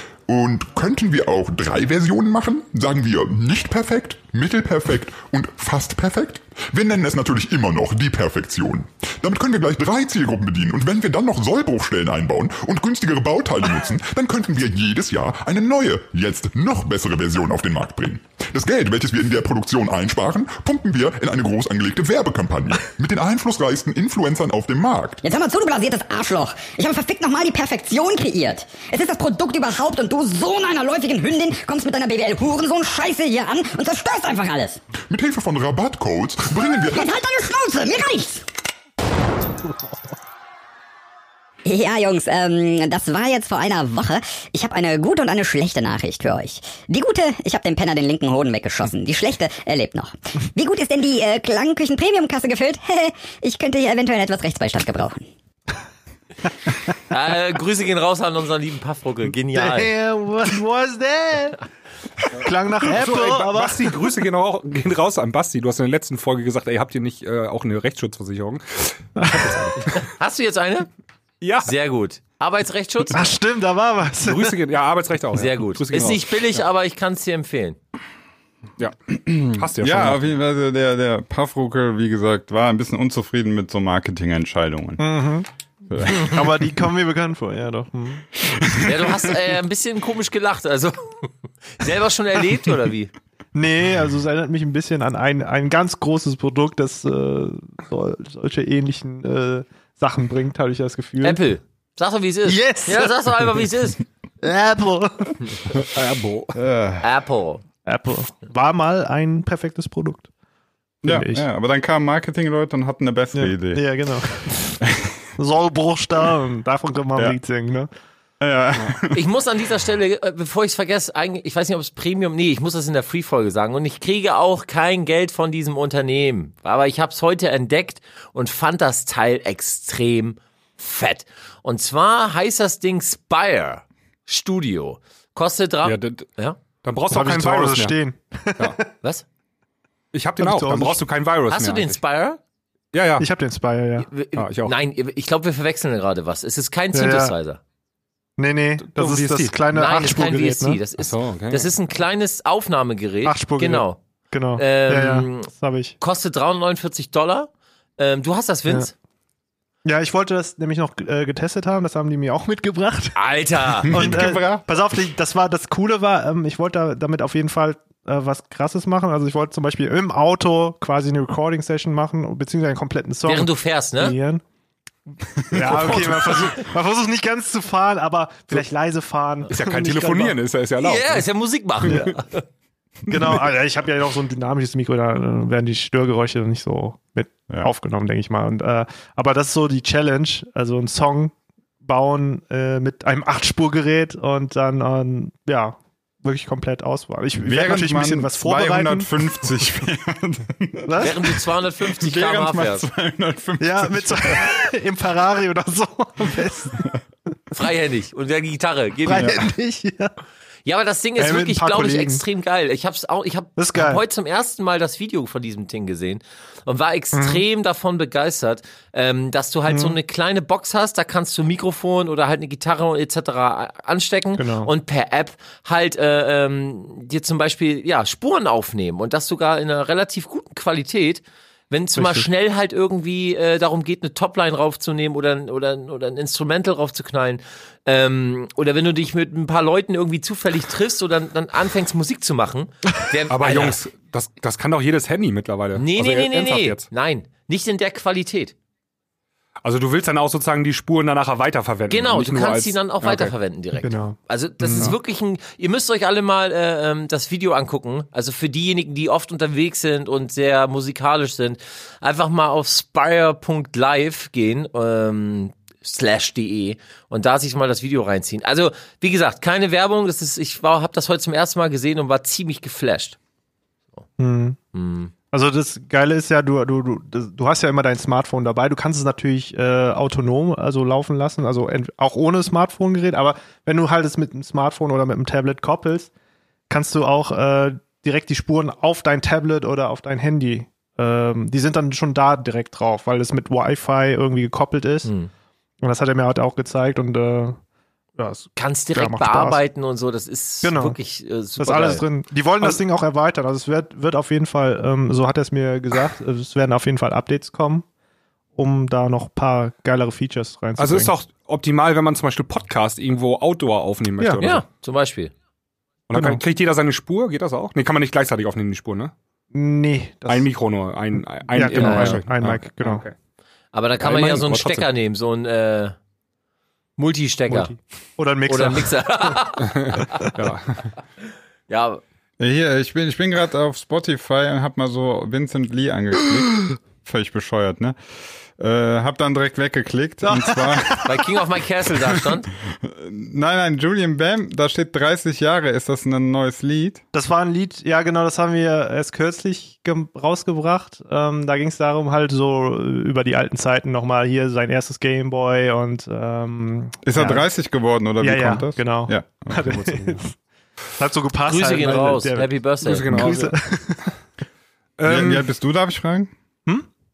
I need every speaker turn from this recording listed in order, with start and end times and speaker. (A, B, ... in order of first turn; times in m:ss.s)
0:00.3-0:25.2 A
0:25.2-0:34.8 B
0:35.0-0:37.1 A
0:36.9-0:38.4 B
0:41.6-0:55.2 B
0:57.1-0:59.9 C
0:59.5-1:01.6 D
1:02.3-1:04.1 D
1:02.8-1:09.8 E
1:09.2-1:09.7 D
1:09.9-1:10.9 C
1:11.4-1:11.7 E
1:11.6-1:13.3 C
1:13.1-1:14.6 D
1:14.2-1:16.6 E
1:15.3-1:17.8 C
1:19.1-1:25.2 F
1:19.5-1:20.3 E
1:25.0-1:25.5 D
1:25.9-1:26.6 F
1:26.1-1:28.2 D
1:28.5-1:29.1 F
1:28.8-1:33.1 C
1:33.5-1:41.4 D
1:41.2-1:44.0 C
1:42.4-1:43.2 D
1:44.4-1:45.4 D
1:45.7-1:46.5 E
1:46.6-1:47.0 F
1:47.0-1:47.6 C
1:47.8-1:50.3 D
1:51.0-1:51.4 D
1:51.0-1:53.8 F
1:53.3-1:54.8 D
1:54.8-1:55.1 F
1:55.4-1:57.9 D
1:58.4-1:59.2 F
1:59.1-2:16.6 C
2:15.8-2:16.3 E
2:16.8-2:18.0 E
2:17.1-2:18.9 D
2:20.1-2:22.0 E
2:20.4-2:21.0 D
2:21.5-2:22.4 C
2:22.9-2:23.3 E
2:23.2-2:24.1 D
2:24.0-2:27.6 C
2:24.4-2:24.7 E
2:26.9-2:27.3 D
2:28.4-2:30.8 D
2:28.8-2:29.6 E
2:29.7-2:34.0 C
2:31.0-2:31.7 E
2:33.2-2:35.9 D
2:34.6-2:38.9 C
2:39.8-2:43.2 D
2:43.1-2:44.0 C
2:43.9-2:54.4 D
2:43.9-2:44.6 F
2:53.2-2:54.2 C
2:55.5-3:00.4 D
2:55.7-2:56.0 F
2:59.5-3:01.2 E
3:00.8-3:02.2 C
3:01.8-3:02.1 D
3:01.8-3:02.1 E
3:03.1-3:19.2 D
3:17.4-3:24.5 F
3:20.8-3:21.1 D
3:21.0-3:22.9 C
3:23.6-3:26.9 D
3:27.5-3:29.4 C
3:29.0-3:30.2 D
3:30.6-4:03.8 C
3:31.2-3:32.3 D
3:33.6-3:34.0 D
3:37.1-3:37.4 D
3:39.7-3:40.0 D
3:44.4-3:44.7 D
3:51.9-3:52.3 D
4:03.3-4:06.8 E
4:05.8-4:08.5 C
4:09.6-4:13.3 E
4:11.9-4:33.2 C
4:13.8-4:14.9 D
4:34.2-4:34.6 D
4:34.7-4:35.1 C
4:35.3-4:46.1 D
4:46.7-4:55.1 D
4:55.0-4:55.3 C
4:55.8-4:57.6 D
4:58.2-4:59.6 D
4:58.6-5:02.0 C
5:00.6-5:01.0 D
5:01.6-5:07.8 D
5:08.6-5:11.1 D
5:10.8-5:14.6 E
5:14.4-5:15.3 C
5:16.1-5:19.1 E
5:16.1-5:16.4 D
5:19.5-5:20.5 D
5:20.3-5:23.1 E
5:21.2-5:23.0 D
5:21.7-5:22.2 C
5:23.7-5:25.9 C
5:24.0-5:24.9 E
5:27.0-5:27.7 C
5:27.5-5:29.5 D
5:28.5-5:30.3 C
5:29.6-5:30.9 E
5:31.7-5:32.0 C
5:32.4-5:38.0 F
5:38.6-5:41.3 F
5:40.2-5:41.1 D
5:41.0-5:42.5 C
5:42.7-5:47.0 F
5:47.1-5:57.4 D
5:57.0-5:59.8 F
5:58.2-6:00.3 D
6:01.0-6:04.1 D
6:01.4-6:03.5 C
6:02.8-6:03.5 E
6:05.0-6:05.5 E
6:05.0-6:06.3 F